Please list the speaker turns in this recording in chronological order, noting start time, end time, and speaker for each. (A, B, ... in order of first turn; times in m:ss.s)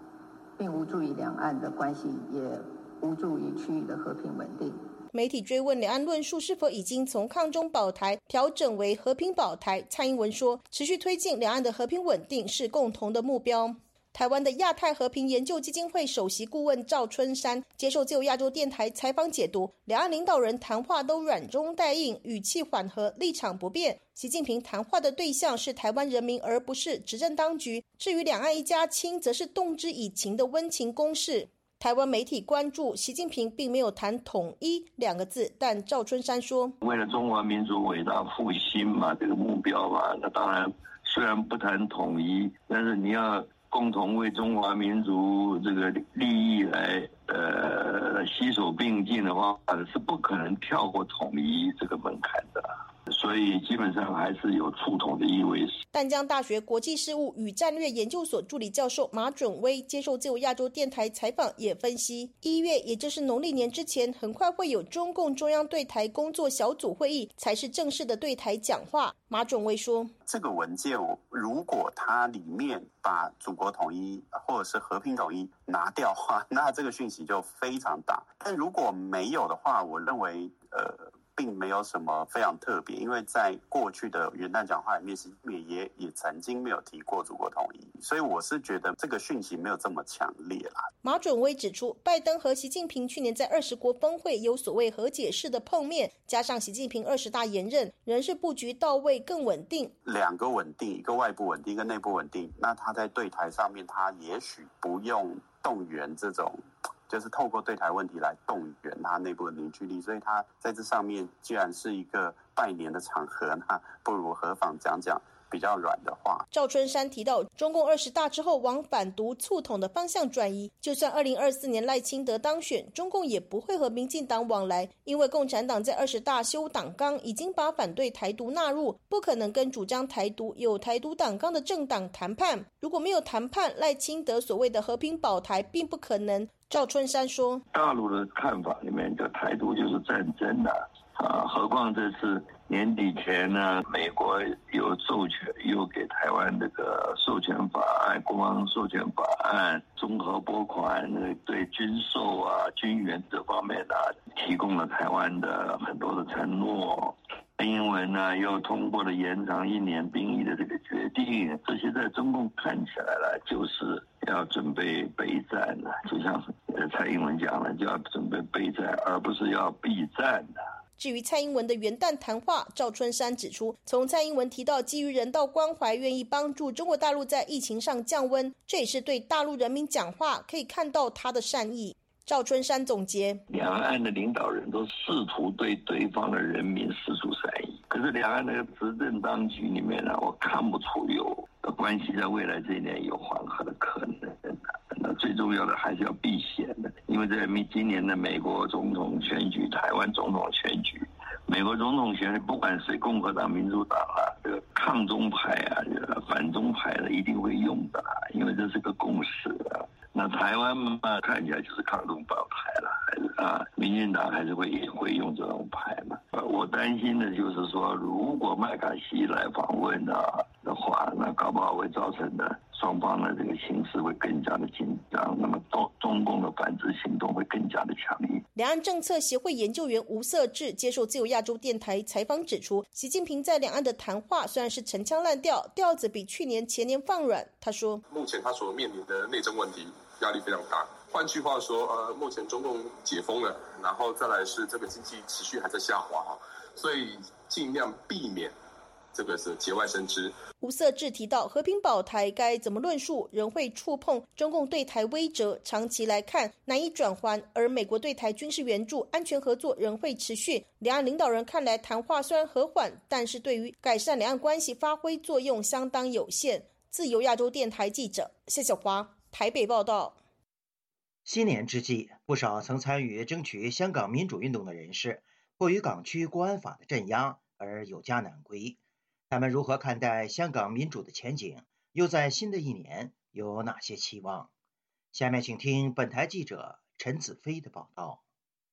0:00.6-0:04.8 A
0:05.1-0:36.7 B
0:36.8-0:55.8 C
0:55.9-1:10.1 B
1:10.2-1:30.9 D
1:31.0-1:39.9 B
1:40.0-1:56.4 D
1:56.5-2:17.6 B
2:17.7-2:50.6 C
2:51.0-3:03.4 B
3:03.5-3:48.4 C
3:48.5-3:58.0 B
3:58.1-4:08.5 E
4:09.2-4:10.3 E
4:10.6-4:30.2 B
4:31.2-4:38.8 F
4:39.3-4:44.5 F
4:45.1-4:48.2 F